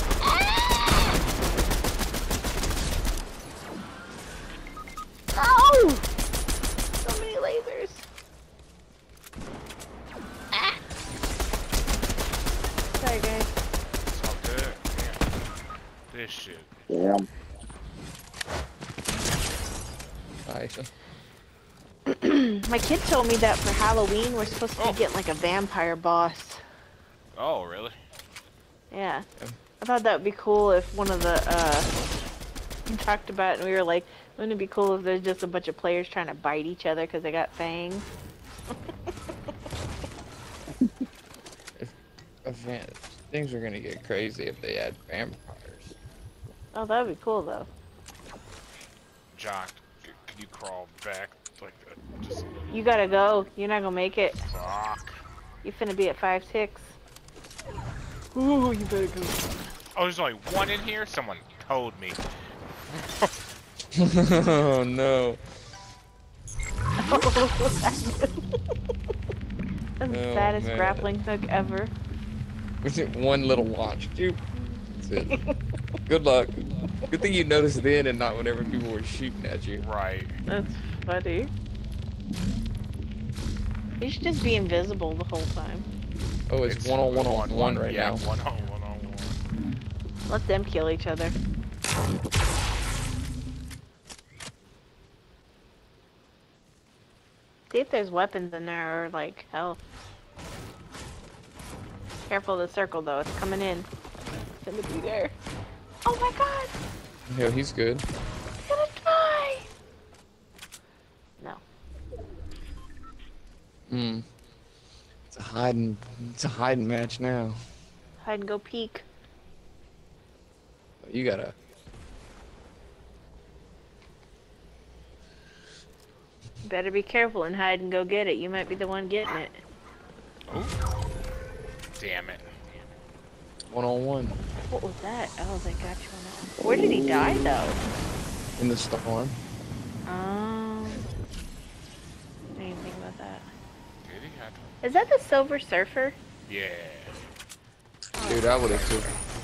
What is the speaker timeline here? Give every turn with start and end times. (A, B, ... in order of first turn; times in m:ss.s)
0:00.2-0:01.1 A
0:05.3-0:06.1 A
0:07.0-0:08.0 A
0:12.9-0:13.6 A
0:14.1-0:15.2 B
0:16.1-0:16.7 B
0:20.4-0:20.9 C
0:22.1-0:26.6 A
0:27.4-0:28.0 B
0:28.9-0:29.2 A
0:29.8-0:31.9 A
0:32.9-0:38.0 A
0:42.4-0:45.9 C
0:46.7-0:47.7 A
0:49.3-0:52.5 B
0:52.7-0:54.4 A
0:54.5-0:55.1 B
0:55.6-0:57.0 A
0:58.3-0:59.5 A
0:59.9-1:02.2 B
1:02.9-1:03.3 B
1:03.9-1:05.4 C
1:07.0-1:08.3 A
1:10.0-1:11.9 A
1:10.1-1:11.1 C
1:12.8-1:14.4 C
1:15.0-1:15.4 C
1:15.2-1:15.5 A
1:16.0-1:19.8 C
1:19.8-1:20.4 B
1:20.5-1:21.5 A
1:24.0-1:25.9 A
1:26.5-1:28.2 C
1:26.7-1:29.4 B
1:30.3-1:31.4 A
1:37.7-1:39.8 A
1:42.3-1:43.9 A
1:44.6-1:45.4 A
1:46.0-1:46.7 A
1:47.3-1:48.0 C
1:48.6-1:49.7 A
1:53.9-1:54.2 C
1:55.3-1:57.6 C
1:58.2-1:59.1 A
2:01.0-2:01.6 C
2:06.6-2:09.6 A
2:10.5-2:10.8 B
2:12.0-2:12.5 B
2:13.7-2:14.4 C
2:14.7-2:17.8 A
2:18.6-2:19.4 C
2:20.0-2:21.0 A
2:22.6-2:23.5 A
2:24.0-2:24.8 B
2:24.8-2:26.2 A
2:26.5-2:27.2 B
2:28.2-2:29.1 A
2:28.2-2:29.1 C